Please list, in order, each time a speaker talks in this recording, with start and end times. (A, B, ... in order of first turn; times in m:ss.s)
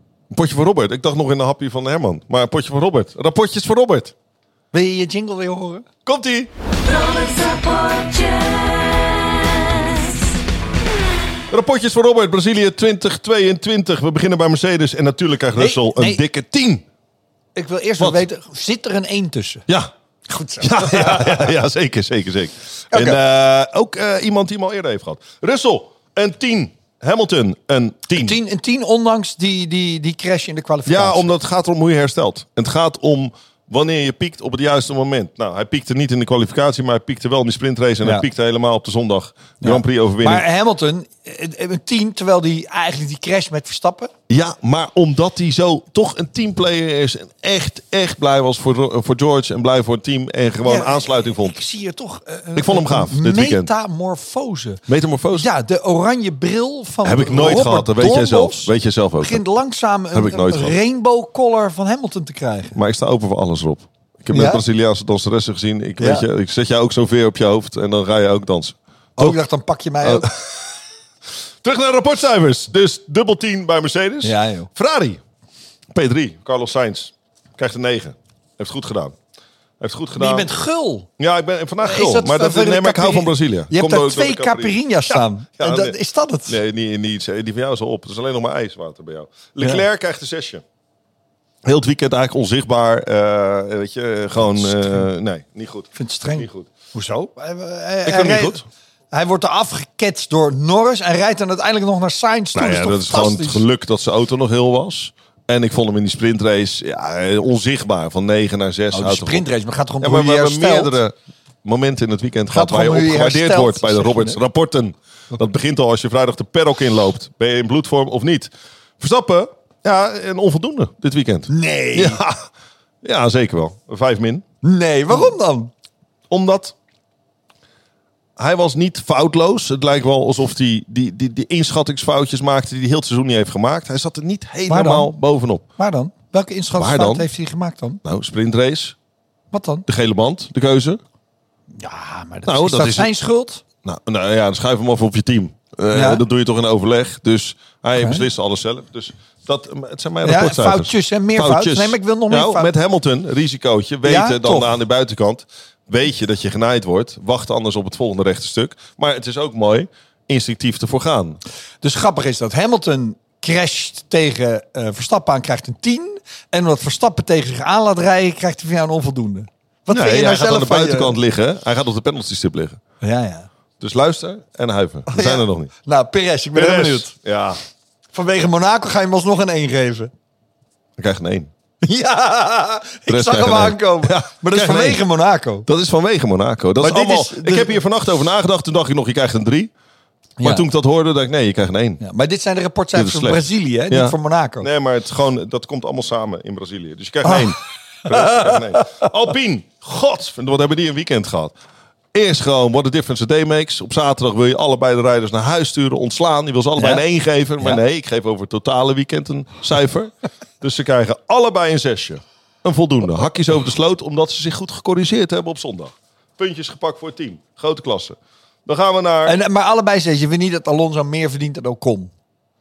0:00.3-0:04.1 A
0:04.7-0:05.8 B
0:06.0-0:06.5 A
0:06.8-0:10.3 C
0:11.5-0:16.8 A
0:15.6-0:16.2 B
0:17.6-0:19.6 B
0:20.3-0:21.4 B
0:20.6-0:28.4 A
0:22.9-0:23.2 B
0:28.1-0:31.2 B
0:30.8-0:40.4 A
0:39.6-0:44.1 B
0:44.3-0:51.6 A
0:50.6-0:54.8 B
0:52.5-0:53.7 A
0:54.9-0:55.5 A
0:55.3-1:02.8 B
0:57.0-0:59.4 A
1:00.1-1:00.8 A
1:02.7-1:09.4 A
1:04.3-1:04.6 B
1:06.0-1:06.2 B
1:09.2-1:10.3 B
1:10.0-1:10.8 A
1:11.6-1:15.2 A
1:14.2-1:14.7 B
1:15.9-1:19.2 A
1:19.8-1:20.5 A
1:20.2-1:21.1 B
1:21.2-1:25.9 A
1:21.8-1:26.6 B
1:26.5-1:30.6 A
1:31.6-1:36.7 A
1:34.7-1:35.0 B
1:35.9-1:43.6 B
1:38.0-1:38.6 A
1:42.5-1:49.5 A
1:48.9-1:50.9 B
1:50.0-2:02.5 A
1:52.5-1:54.4 B
2:01.5-2:02.2 B
2:03.0-2:04.4 A
2:04.6-2:05.7 B
2:06.3-2:06.7 A
2:08.4-2:15.6 A
2:14.7-2:15.1 B
2:15.8-2:18.0 B
2:16.7-2:17.3 A
2:18.0-2:19.0 A
2:19.5-2:19.8 B
2:19.9-2:21.0 A
2:21.8-2:23.6 B
2:22.4-2:23.1 A
2:23.8-2:41.4 A
2:25.9-2:26.2 B
2:28.0-2:28.2 B
2:30.2-2:32.7 B
2:34.0-2:34.7 B
2:41.8-2:51.2 B
2:49.9-2:52.8 A
2:53.0-2:53.5 B
2:53.8-2:55.7 A
2:55.1-2:57.1 B
2:56.5-2:57.6 A
2:58.1-3:00.1 B
3:01.0-3:01.5 A
3:01.8-3:05.7 B
3:03.1-3:05.0 A
3:05.6-3:09.7 A
3:06.8-3:07.8 B
3:10.4-3:10.6 B
3:10.4-3:12.0 A
3:12.0-3:14.7 B
3:12.9-3:21.5 A
3:22.1-3:39.4 A
3:26.8-3:27.0 B
3:39.2-3:42.1 B